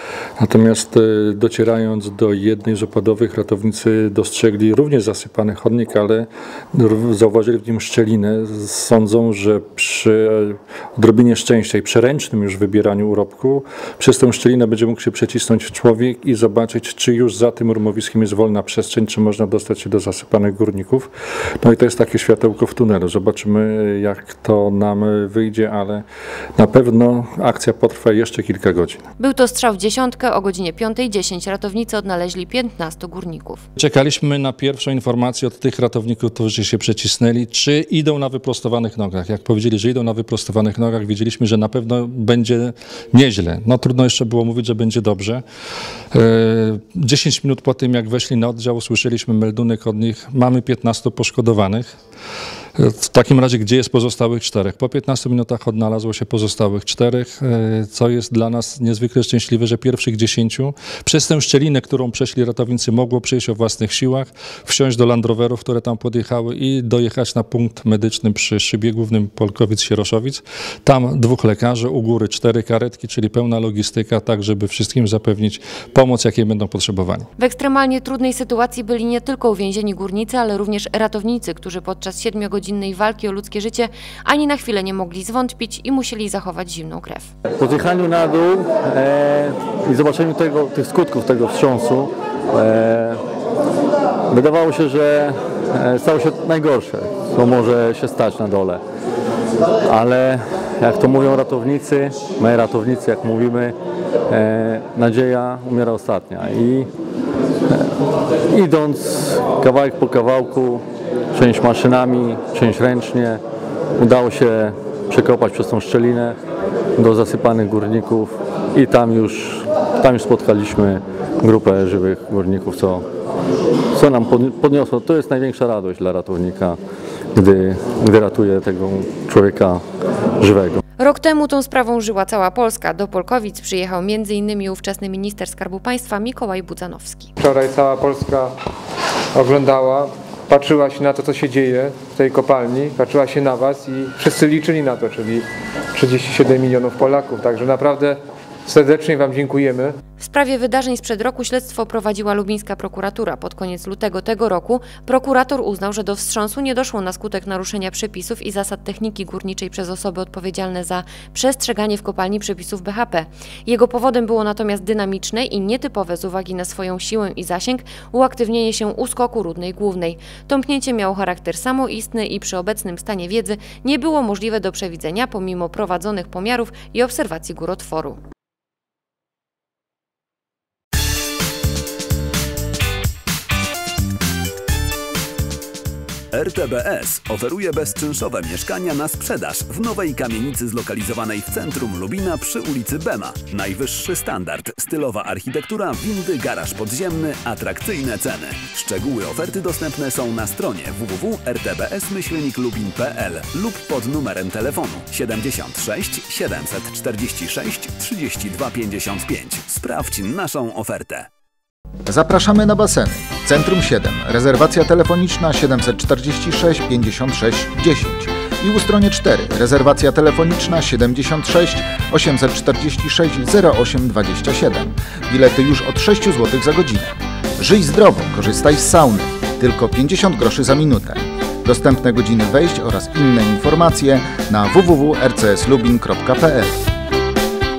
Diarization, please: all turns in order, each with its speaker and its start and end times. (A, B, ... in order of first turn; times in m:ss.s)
0:00.4-0:21.1 A
0:21.6-0:26.0 A
0:26.6-0:29.0 A
0:29.2-0:33.6 B
0:33.8-0:45.4 A
0:46.1-0:52.0 A
0:52.8-1:17.3 A
1:17.4-1:27.3 B
1:27.6-1:33.2 C
1:34.3-1:38.8 C
1:39.8-1:43.8 C
1:44.3-1:46.9 C
1:47.7-1:48.0 C
1:48.5-1:53.4 C
1:54.0-1:56.4 C
1:57.0-2:03.0 C
2:03.9-2:06.8 C
2:07.3-2:09.8 C
2:10.4-2:10.8 C
2:11.0-2:17.4 B
2:17.4-2:18.6 D
2:19.3-2:30.0 D
2:30.2-2:58.2 B
3:06.3-3:31.3 E
3:32.1-3:56.8 F